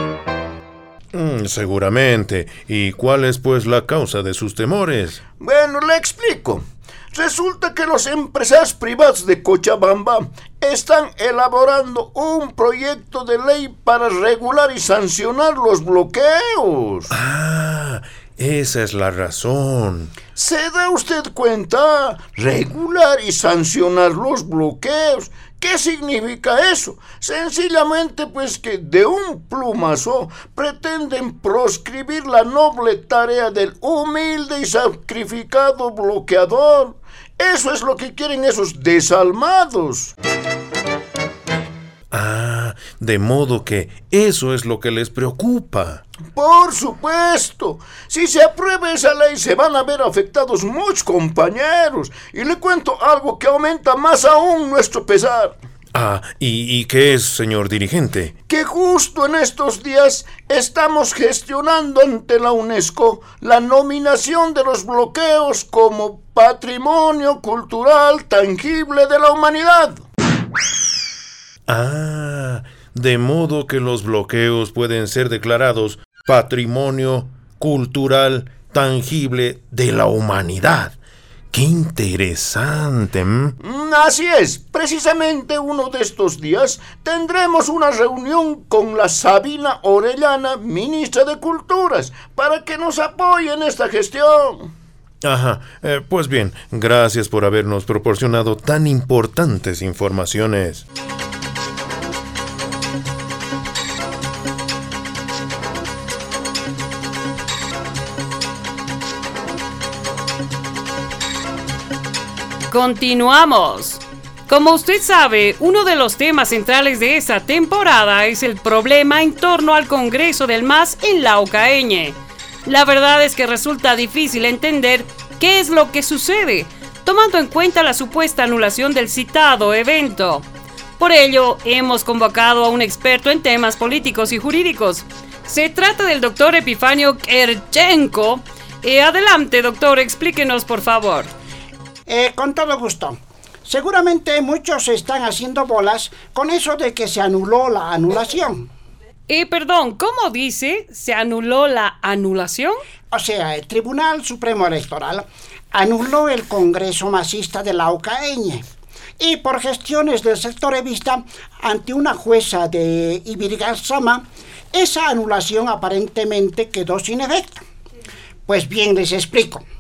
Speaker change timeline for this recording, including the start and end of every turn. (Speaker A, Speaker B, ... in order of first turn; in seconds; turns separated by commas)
Speaker A: 1.1-5.2, Speaker B: 5.4-17.1, Speaker A: 17.1-20.2, Speaker B: 20.4-40.1, Speaker A: 42.1-46.0, Speaker B: 46.3-55.6, Speaker A: 55.9-58.3, Speaker B: 58.5-70.1, Speaker A: 71.7-81.0, Speaker A: 81.5-83.6, Speaker B: 83.6-94.7, Speaker A: 95.2-100.8, Speaker C: 112.7-130.4, Speaker C: 131.0-141.3, Speaker D: 142.1-148.7, Speaker C: 149.3-152.8, Speaker D: 153.1-158.6, Speaker D: 159.2-167.6, Speaker D: 168.5-169.6